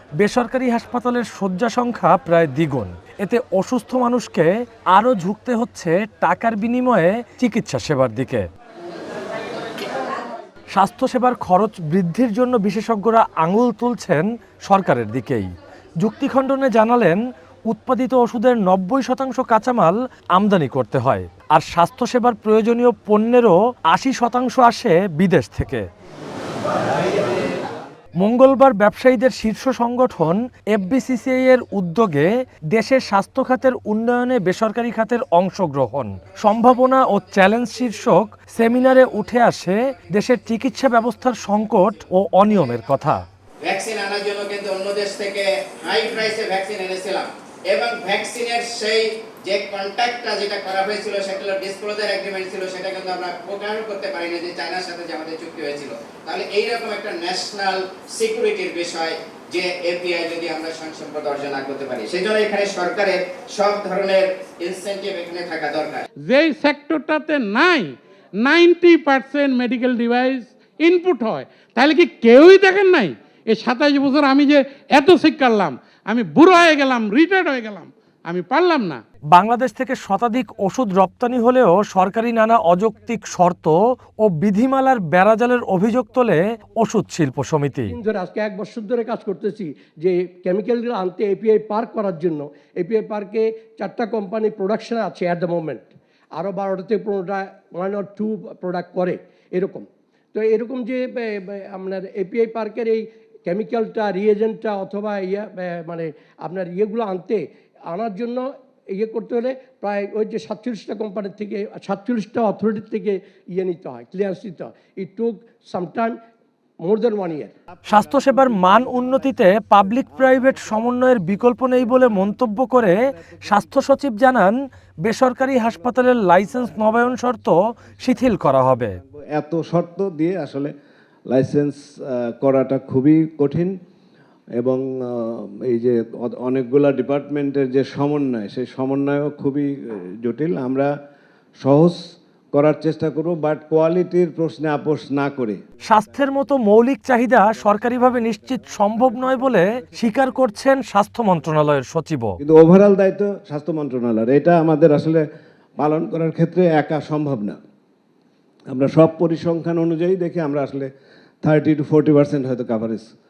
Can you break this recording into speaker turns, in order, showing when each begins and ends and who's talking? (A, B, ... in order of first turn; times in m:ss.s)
0:00.2-0:08.4 A
0:10.7-0:15.5 A
0:16.0-0:25.8 A
0:28.2-0:43.2 A
0:43.6-1:06.0 B
1:06.3-1:19.0 C
1:19.3-1:27.9 A
1:27.9-1:56.2 D
1:56.8-1:57.5 D
1:57.9-2:04.5 A
2:05.0-2:08.9 A
2:09.3-2:10.7 E
2:11.3-2:13.7 E
2:14.6-2:20.9 E
2:21.6-2:22.0 E
2:22.5-2:25.6 E
2:25.9-2:32.4 A
2:32.4-2:35.2 E
2:35.8-2:37.6 E
2:38.7-2:40.9 E
2:41.4-2:43.1 E